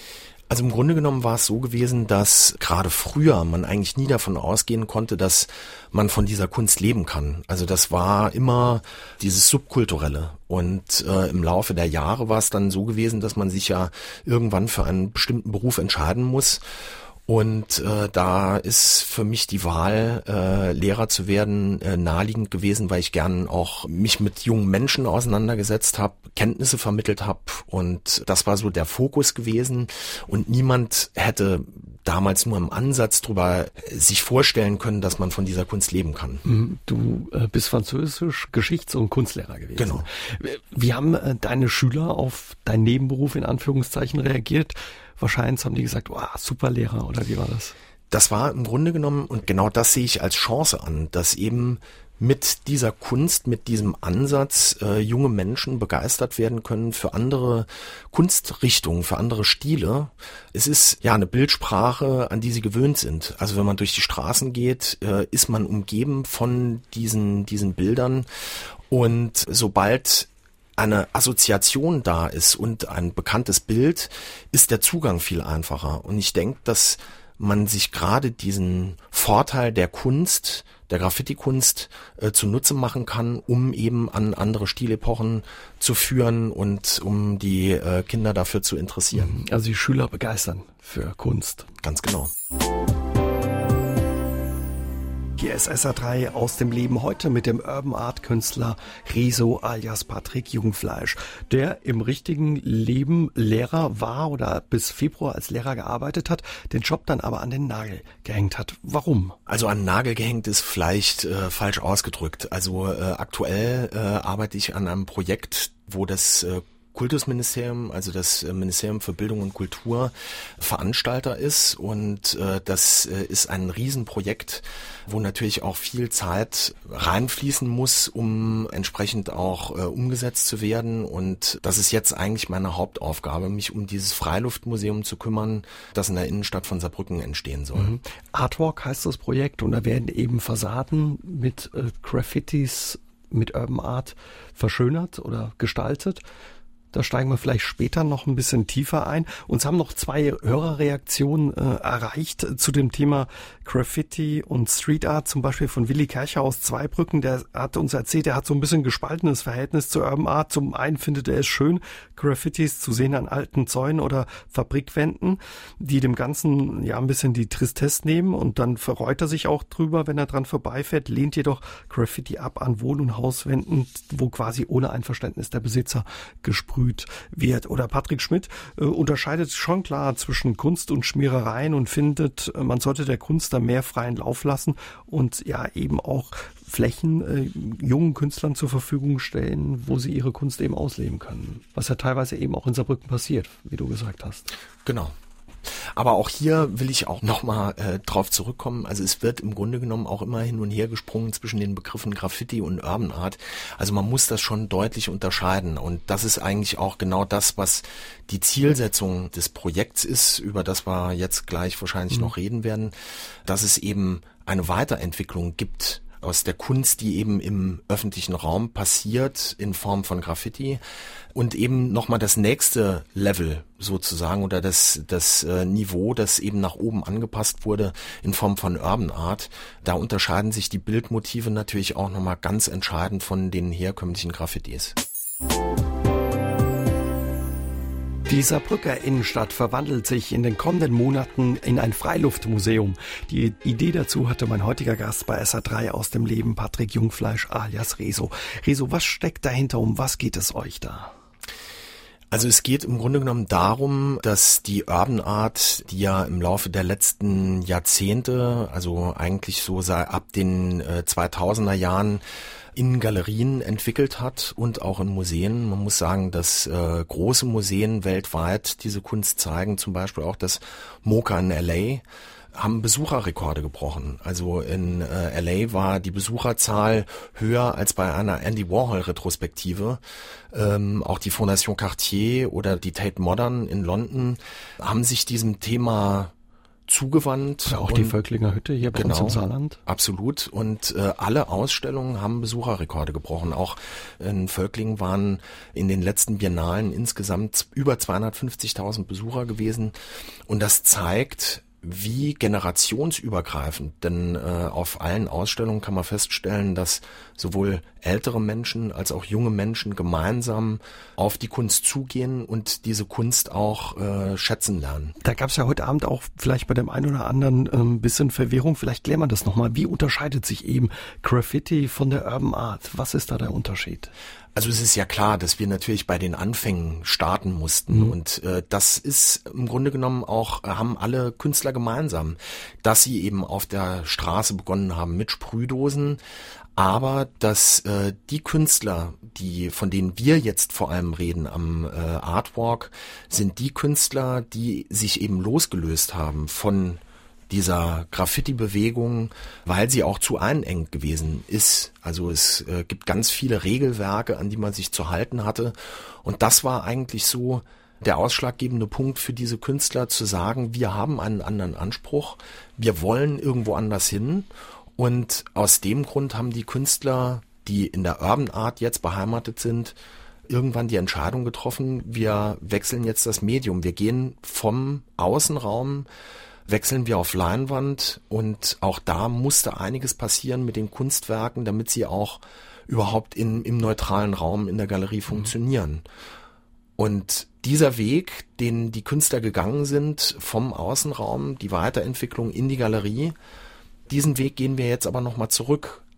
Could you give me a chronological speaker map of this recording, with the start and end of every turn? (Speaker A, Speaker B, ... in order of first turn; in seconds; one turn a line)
Speaker A: 0.5-16.6
Speaker A: 17.2-36.4
Speaker B: 36.4-47.7
Speaker A: 39.8-40.1
Speaker A: 48.1-68.2
Speaker A: 68.9-89.3
Speaker B: 89.1-91.7
Speaker A: 91.8-92.3
Speaker B: 95.4-109.4
Speaker A: 109.5-137.9
Speaker B: 137.8-146.2
Speaker B: 146.9-194.5
Speaker A: 194.8-195.1
Speaker A: 195.7-212.9
Speaker A: 213.4-220.8
Speaker A: 221.3-235.0
Speaker B: 238.3-251.1
Speaker A: 252.3-262.2
Speaker A: 262.7-280.0
Speaker A: 280.5-286.3
Speaker A: 286.9-288.1
Speaker B: 287.6-289.8
Speaker A: 288.8-299.9
Speaker A: 300.5-315.1
Speaker B: 315.2-324.1
Speaker A: 324.5-336.2
Speaker A: 336.8-370.0
Speaker A: 370.5-376.1
Speaker A: 376.7-386.0
Speaker A: 387.0-393.3
Speaker A: 394.1-396.0